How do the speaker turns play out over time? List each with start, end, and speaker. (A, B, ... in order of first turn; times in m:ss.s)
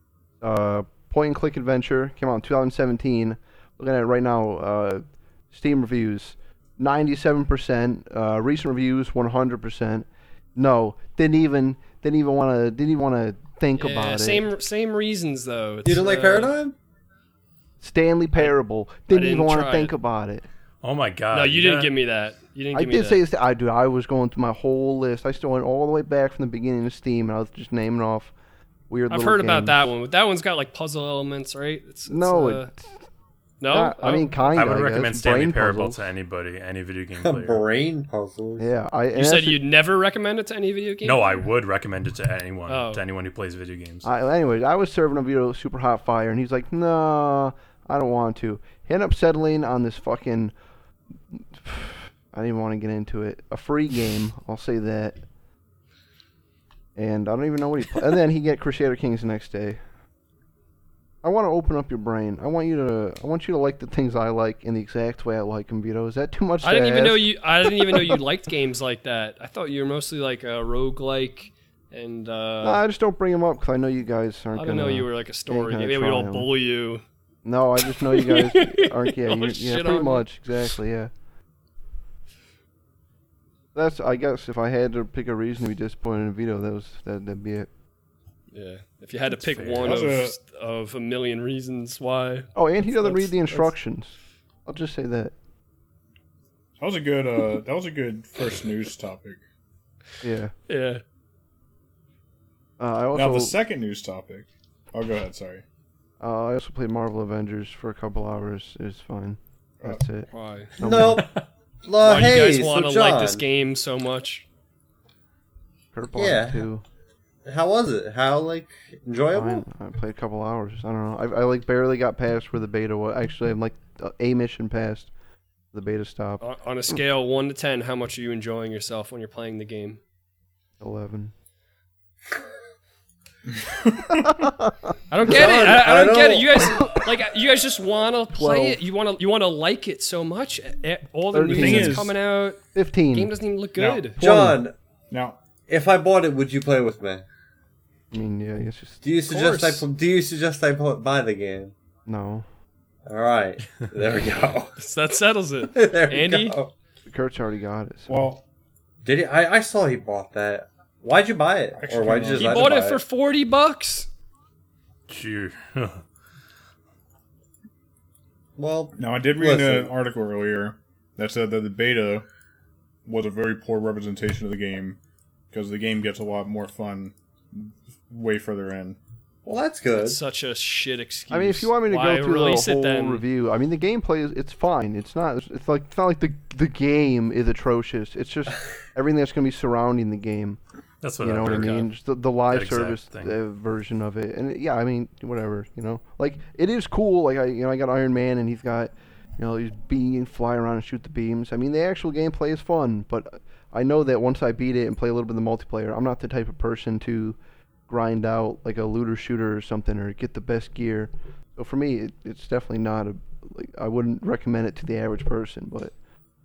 0:00.4-0:14.5 A
0:13.8-0:16.6 B
0:15.8-0:16.8 C
0:17.8-0:20.5 A
0:19.1-0:19.9 B
0:20.8-0:21.9 D
0:21.3-0:23.2 B
0:22.7-0:28.3 A
0:28.9-0:29.9 A
0:29.1-0:32.7 B
0:32.1-0:32.9 A
0:33.6-0:34.4 B
0:33.7-0:36.0 A
0:34.5-0:37.6 D
0:37.2-0:38.6 C
0:38.6-0:39.6 A
0:39.1-0:41.4 B
0:41.0-0:44.1 D
0:42.7-0:43.0 B
0:44.0-0:50.5 A
0:51.3-0:55.2 A
0:57.0-0:59.8 A
1:01.2-1:08.2 A
1:06.6-1:12.8 B
1:12.6-1:16.5 A
1:14.6-1:17.0 B
1:17.4-1:21.1 A
1:17.8-1:20.3 B
1:23.7-1:27.7 A
1:28.5-1:33.7 B
1:29.3-1:30.2 D
1:29.8-1:30.4 E
1:32.6-1:35.3 A
1:36.8-1:39.4 E
1:40.2-1:40.5 A
1:40.7-1:41.0 B
1:42.8-1:43.6 A
1:43.1-1:45.6 E
1:46.2-1:51.3 A
1:50.3-1:50.7 B
1:50.8-1:51.3 C
1:51.8-1:53.4 C
1:52.0-1:54.5 B
1:55.9-1:56.8 A
1:56.1-1:56.7 C
1:57.5-1:59.6 C
1:59.3-2:05.1 A
2:05.7-2:06.4 A
2:06.4-2:10.0 B
2:10.8-2:11.3 A
2:13.5-2:14.4 E
2:14.2-2:14.9 A
2:15.1-2:24.2 B
2:15.2-2:17.0 C
2:18.3-2:18.8 A
2:21.3-2:22.1 A
2:21.5-2:22.2 E
2:22.8-2:23.3 A
2:23.8-2:24.6 E
2:24.2-2:24.7 C
2:24.2-2:24.6 A
2:25.1-2:25.4 E
2:25.7-2:27.2 C
2:28.1-2:29.0 A
2:29.0-2:31.7 C
2:29.2-2:29.9 B
2:32.1-2:32.5 A
2:33.1-2:34.8 C
2:34.8-2:36.6 B
2:35.7-2:36.7 C
2:37.0-2:38.2 A
2:38.1-2:38.4 E
2:39.0-2:43.0 C
2:41.8-2:42.7 E
2:42.3-2:44.1 B
2:45.1-2:46.0 D
2:48.6-2:49.9 C
2:49.0-2:52.3 E
2:53.1-2:55.0 E
2:55.5-2:59.0 E
2:59.4-3:00.2 C
2:59.9-3:03.2 B
3:01.3-3:10.6 A
3:11.0-3:13.4 D
3:11.2-3:35.9 A
3:11.4-3:11.9 B